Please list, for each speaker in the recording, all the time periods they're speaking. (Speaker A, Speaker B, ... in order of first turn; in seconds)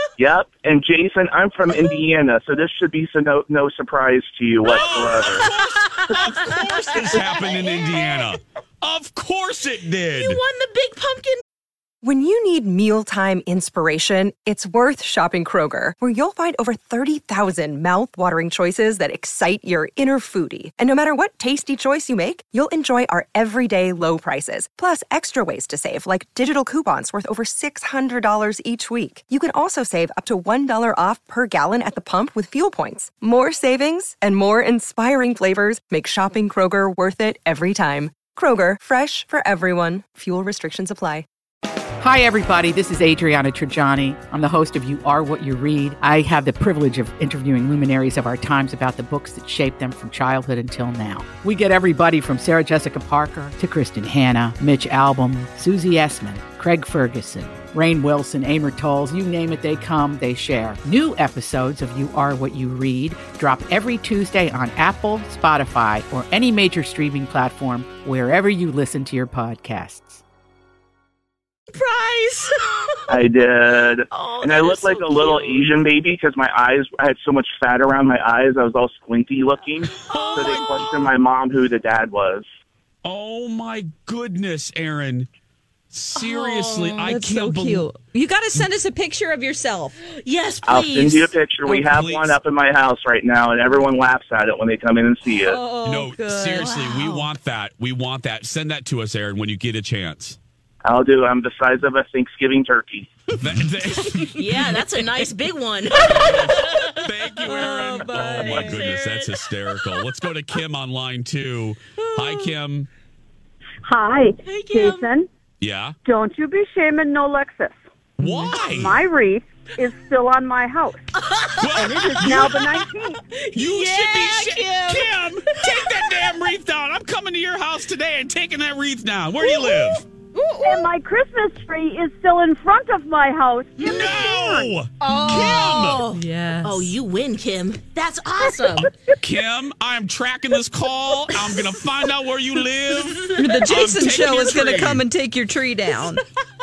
Speaker A: 0.2-5.5, 73.1-82.5, 90.7-95.6, 100.8-103.1
Speaker B: 4.6-10.4, 80.0-80.8, 83.0-85.3, 85.9-87.9, 91.7-92.4, 95.8-100.4, 103.4-104.5, 106.1-112.9, 115.6-116.0, 118.2-119.0, 121.6-122.6, 123.5-130.0, 133.8-136.1, 138.8-145.0
Speaker C: 5.5-8.3, 10.1-11.4, 71.7-73.1, 74.1-75.7, 80.1-80.6, 86.2-87.1, 90.2-91.3, 96.6-97.3, 104.3-109.5, 114.5-115.1, 121.2-126.3, 130.4-130.9, 135.0-138.9
Speaker D: 12.0-41.3
Speaker E: 42.0-70.2
Speaker F: 87.1-90.0, 95.4-96.7, 107.5-108.9, 112.0-112.5, 136.1-136.9, 143.4-146.2
Speaker G: 113.8-115.3, 116.0-117.8, 118.6-121.1, 121.8-123.2, 130.6-134.7